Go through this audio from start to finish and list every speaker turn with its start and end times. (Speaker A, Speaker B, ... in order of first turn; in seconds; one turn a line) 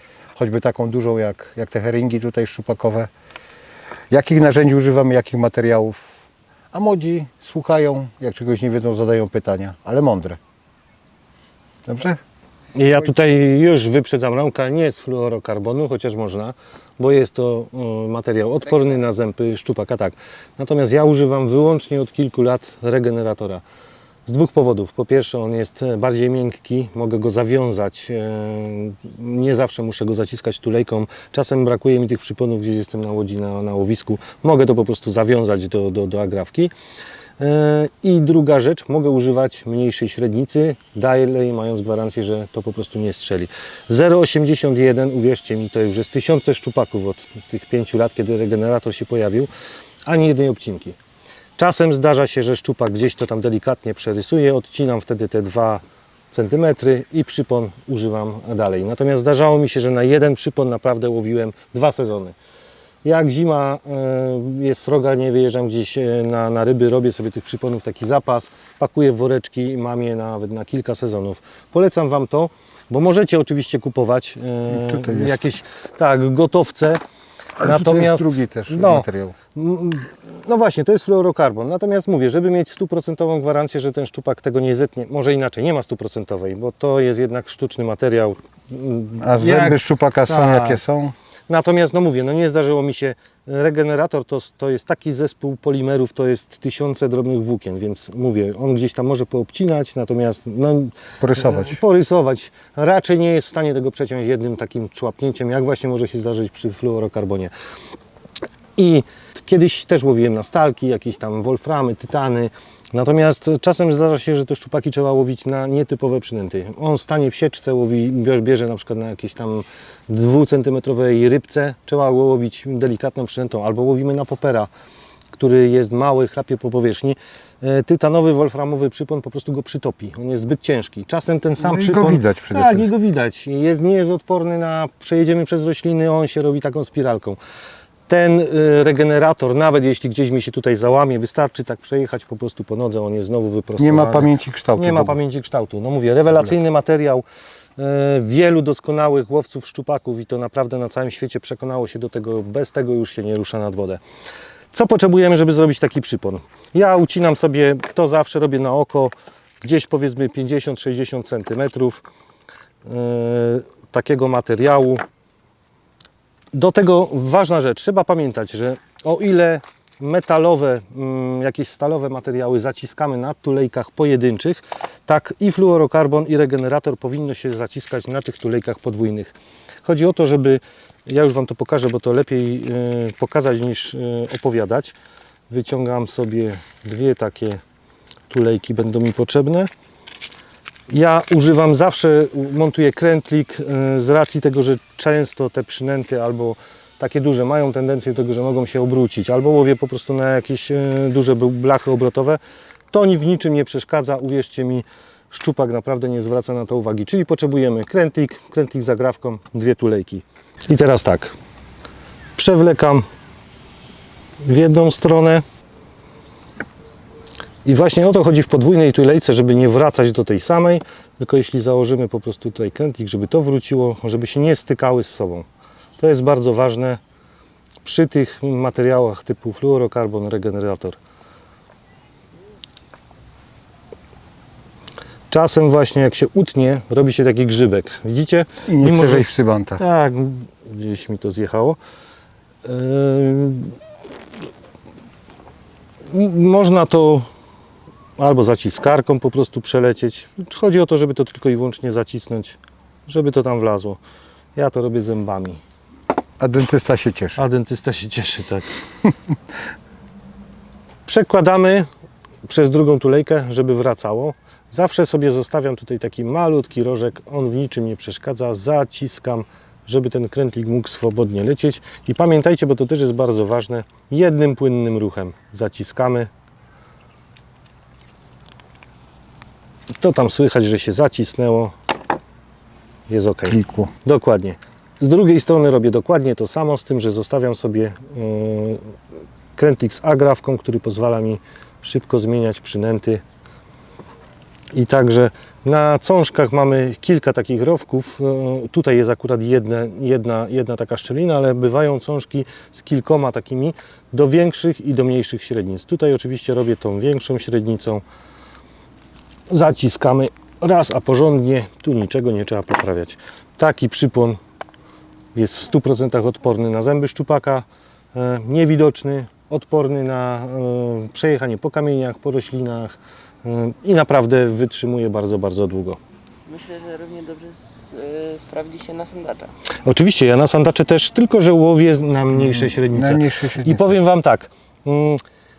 Speaker A: 0.4-3.1
Speaker A: 4.1-6.0
Speaker A: 6.7-10.4
Speaker A: 11.9-12.2
Speaker B: 12.7-23.6
Speaker B: 24.3-36.7
Speaker B: 37.4-49.5
Speaker B: 50.0-51.0
Speaker B: 51.6-62.4
Speaker B: 63.0-77.0
Speaker A: 74.8-75.4
Speaker B: 77.6-90.8
Speaker A: 77.6-79.3
Speaker A: 89.2-91.1
Speaker B: 91.5-107.5
Speaker A: 101.2-101.8
Speaker B: 108.8-124.7
Speaker B: 125.3-137.4
Speaker A: 131.6-132.9
Speaker B: 138.1-147.2
Speaker A: 143.8-145.2
Speaker B: 147.8-154.0
Speaker B: 154.7-162.0
Speaker B: 162.8-165.0
Speaker B: 166.5-179.3
Speaker B: 179.8-184.9
Speaker B: 185.5-187.6
Speaker B: 188.3-189.7
Speaker B: 190.9-202.4
Speaker B: 202.9-211.4
Speaker B: 212.4-213.0
Speaker B: 214.4-215.4
Speaker B: 217.6-225.4
Speaker B: 226.0-227.0
Speaker B: 227.8-231.0
Speaker B: 235.3-241.8
Speaker A: 238.7-239.8
Speaker B: 242.6-243.8
Speaker B: 246.1-247.3
Speaker B: 248.2-254.0
Speaker B: 254.6-255.6
Speaker A: 256.4-257.4
Speaker B: 257.4-258.7
Speaker B: 261.1-261.9
Speaker B: 262.4-276.3
Speaker B: 280.0-281.7
Speaker B: 283.1-288.9
Speaker A: 283.5-283.9
Speaker B: 289.6-293.2
Speaker B: 294.7-308.0
Speaker B: 309.5-314.4
Speaker B: 315.3-326.0
Speaker C: 326.4-329.5
Speaker B: 329.8-335.2
Speaker A: 332.3-333.9